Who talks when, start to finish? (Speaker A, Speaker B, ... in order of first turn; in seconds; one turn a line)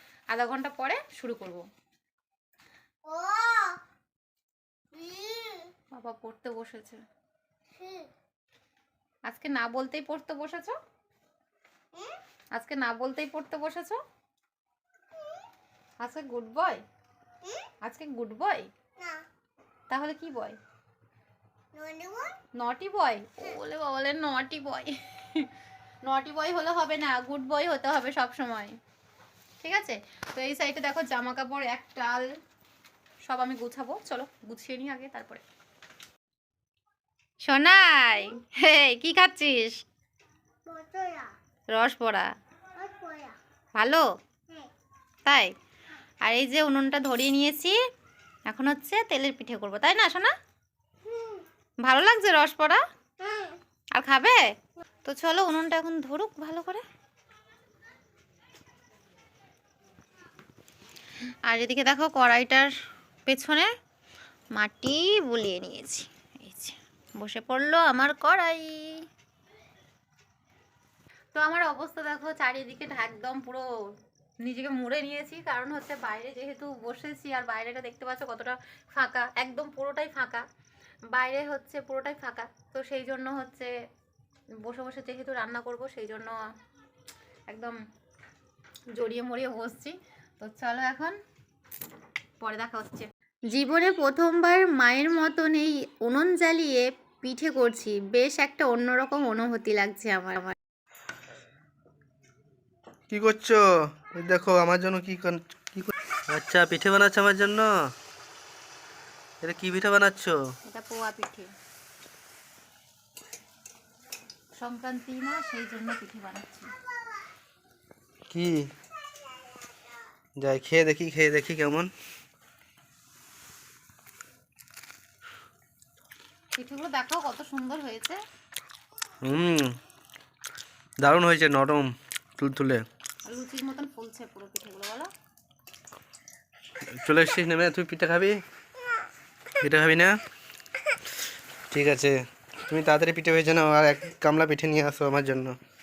Speaker A: 0.3-1.6
Speaker B: 3.1-3.8
Speaker B: 4.9-5.7
Speaker A: 5.9-7.0
Speaker B: 7.8-8.1
Speaker A: 9.3-10.8
Speaker A: 12.5-14.0
Speaker A: 16.0-16.8
Speaker A: 17.8-18.7
Speaker B: 19.0-19.2
Speaker A: 19.9-20.6
Speaker B: 21.7-22.4
Speaker A: 22.6-25.5
Speaker A: 26.0-28.8
Speaker A: 29.6-32.3
Speaker A: 33.2-35.4
Speaker A: 37.4-39.8
Speaker B: 40.7-41.3
Speaker A: 41.7-42.3
Speaker B: 42.8-43.4
Speaker A: 43.8-44.0
Speaker A: 45.2-45.5
Speaker A: 46.2-47.8
Speaker A: 48.5-50.3
Speaker B: 51.1-51.4
Speaker A: 51.8-52.8
Speaker B: 53.2-53.6
Speaker A: 53.9-54.5
Speaker A: 55.0-56.8
Speaker A: 61.5-62.7
Speaker A: 63.3-63.7
Speaker A: 64.5-69.0
Speaker A: 71.3-73.7
Speaker A: 74.4-80.4
Speaker A: 81.1-83.7
Speaker A: 84.6-86.5
Speaker A: 87.5-87.8
Speaker A: 88.9-91.2
Speaker A: 92.4-100.5
Speaker C: 103.1-107.9
Speaker C: 109.4-110.4
Speaker A: 110.7-111.5
Speaker A: 114.6-116.7
Speaker C: 118.3-118.7
Speaker C: 120.4-121.9
Speaker A: 126.5-128.2
Speaker C: 129.2-129.7
Speaker C: 131.0-132.8
Speaker A: 133.2-135.1
Speaker C: 136.9-138.4
Speaker C: 139.5-140.2
Speaker C: 141.7-145.5